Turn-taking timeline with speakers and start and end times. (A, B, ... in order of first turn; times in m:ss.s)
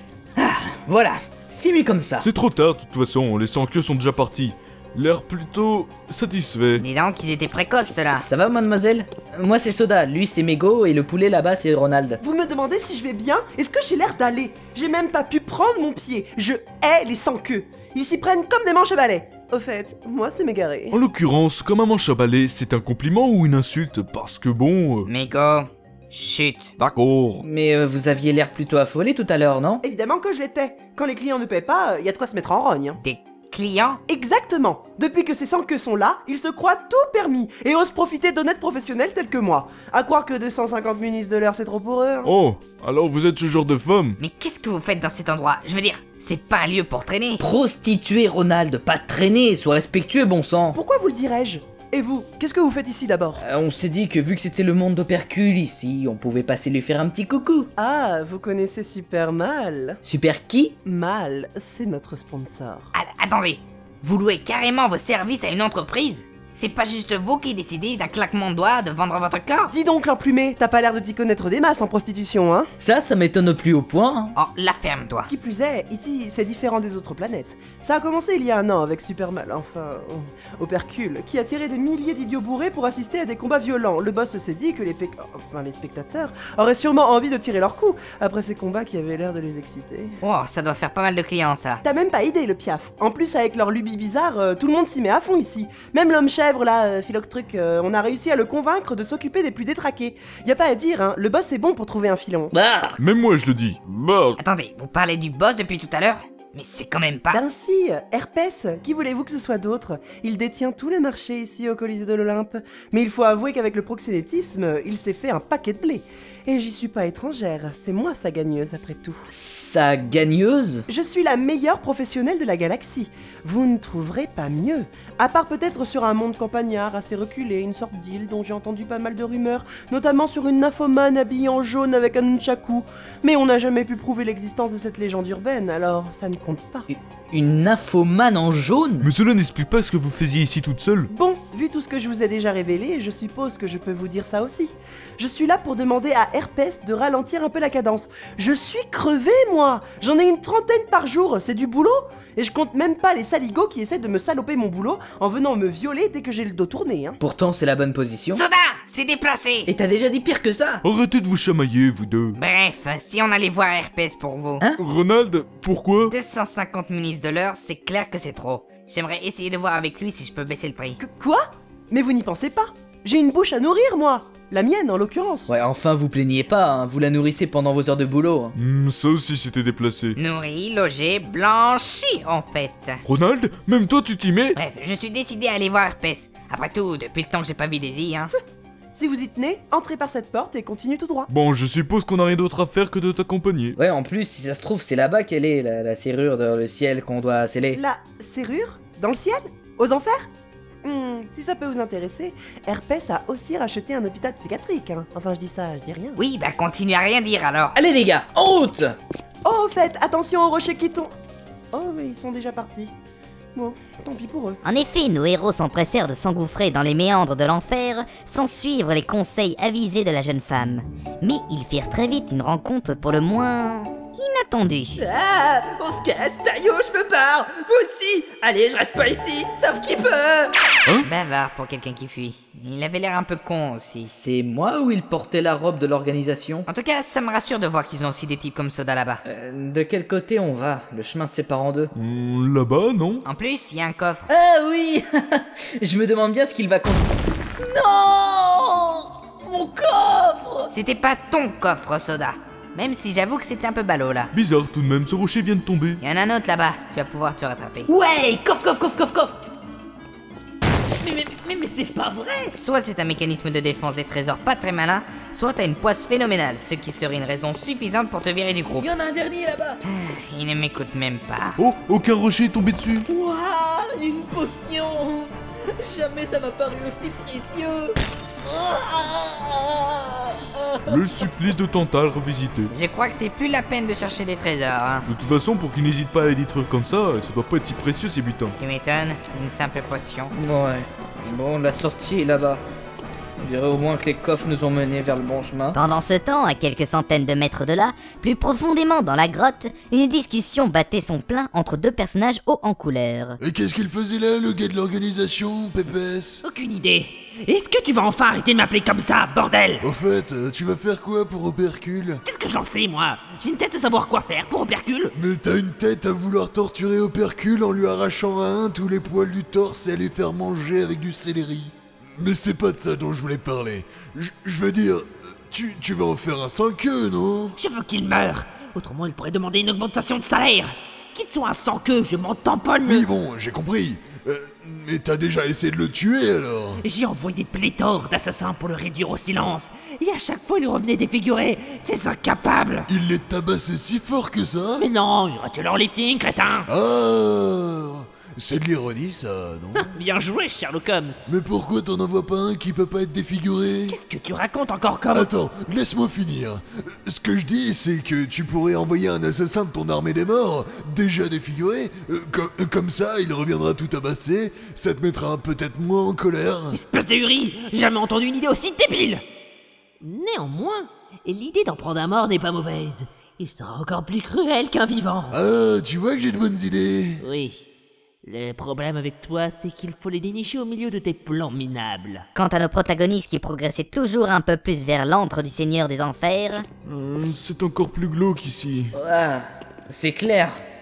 0:00.4-0:02.3 A
0:02.2-0:06.8 B
0:07.7-0:08.2 C
0:08.2-0:12.2 A
0:12.2-0:21.0 D
0:20.9-0:25.1 B
0:25.1-0:26.7 C
0:26.8-0:27.4 B
0:27.4-0:29.8 A
0:29.8-0:33.0 D
0:33.0-0:34.0 C
0:34.1-0:42.3 D
0:42.2-0:44.2 B
0:44.2-0:47.4 C
0:47.4-0:50.8 A
0:50.7-0:53.4 D
0:53.4-0:57.7 A
0:57.8-1:00.0 D
1:00.0-1:00.7 A
1:00.8-1:02.9 D
1:03.0-1:09.7 C
1:09.7-1:12.7 D
1:12.8-1:14.3 A
1:14.4-1:15.3 C
1:15.3-1:30.2 D
1:30.2-1:31.8 C
1:31.8-1:42.5 D
1:42.6-1:42.9 A
1:43.0-1:44.4 B
1:44.4-1:47.3 C
1:47.3-1:59.2 D
1:59.3-2:00.8 A
2:00.9-2:16.9 D
2:16.9-2:19.1 A
2:19.0-2:21.1 B
2:21.1-2:37.2 D
2:37.2-2:38.4 A
2:38.3-2:39.7 C
2:39.7-2:40.8 A
2:40.8-2:42.4 B
2:42.4-2:44.6 C
2:44.8-2:46.2 B
2:46.1-2:50.9 C
2:51.0-2:55.5 D
2:55.5-2:58.5 A
2:58.5-3:00.2 B
3:00.2-3:03.0 C
3:03.0-3:04.6 B
3:04.6-3:08.3 C
3:09.0-3:11.3 D
3:11.3-3:13.8 B
3:13.8-3:17.8 A
3:17.7-3:20.3 D
3:20.8-3:26.2 D
3:26.2-3:27.8 C
3:27.8-3:28.9 A
3:29.4-3:31.1 D
3:31.7-3:32.9 D
3:33.5-3:34.6 D
3:34.6-3:45.0 E
3:45.0-3:50.4 F
3:51.0-3:54.2 C
3:54.1-3:56.7 A
3:56.7-3:59.2 C
3:59.2-4:01.9 A
4:01.9-4:03.2 B
4:03.3-4:04.2 C
4:04.3-4:10.7 A
4:10.7-4:14.3 C
4:14.3-4:16.0 B
4:16.0-4:17.9 C
4:17.9-4:19.3 A
4:21.0-4:22.5 F
4:22.6-4:28.9 C
4:28.8-4:29.8 A
4:30.0-4:31.6 C
4:31.6-4:33.1 B
4:33.1-4:37.9 A
4:38.6-4:39.8 A
4:40.8-4:42.7 B
4:42.7-4:45.0 C
4:45.0-4:48.6 B
4:48.6-4:50.3 C
4:50.3-4:52.6 A
4:53.4-4:55.8 A
4:55.7-5:03.4 E
5:03.4-5:06.4 G
5:06.4-5:09.8 F
5:09.8-5:12.2 G
5:12.2-5:15.1 F
5:15.1-5:27.6 G
5:27.6-5:33.1 F
5:32.8-5:36.8 G
5:36.8-5:42.9 F
5:42.9-5:44.8 G
5:44.8-5:46.7 F
5:46.7-5:49.9 G
5:49.8-5:51.3 F
5:51.3-5:54.0 G
5:53.9-5:55.3 F
5:55.1-6:06.8 G
6:06.7-6:09.2 F
6:10.0-6:15.4 F
6:15.3-6:17.2 G
6:17.2-6:17.6 F
6:18.2-6:22.2 F
6:22.3-6:26.6 E
6:26.8-6:29.0 B
6:28.9-6:30.6 A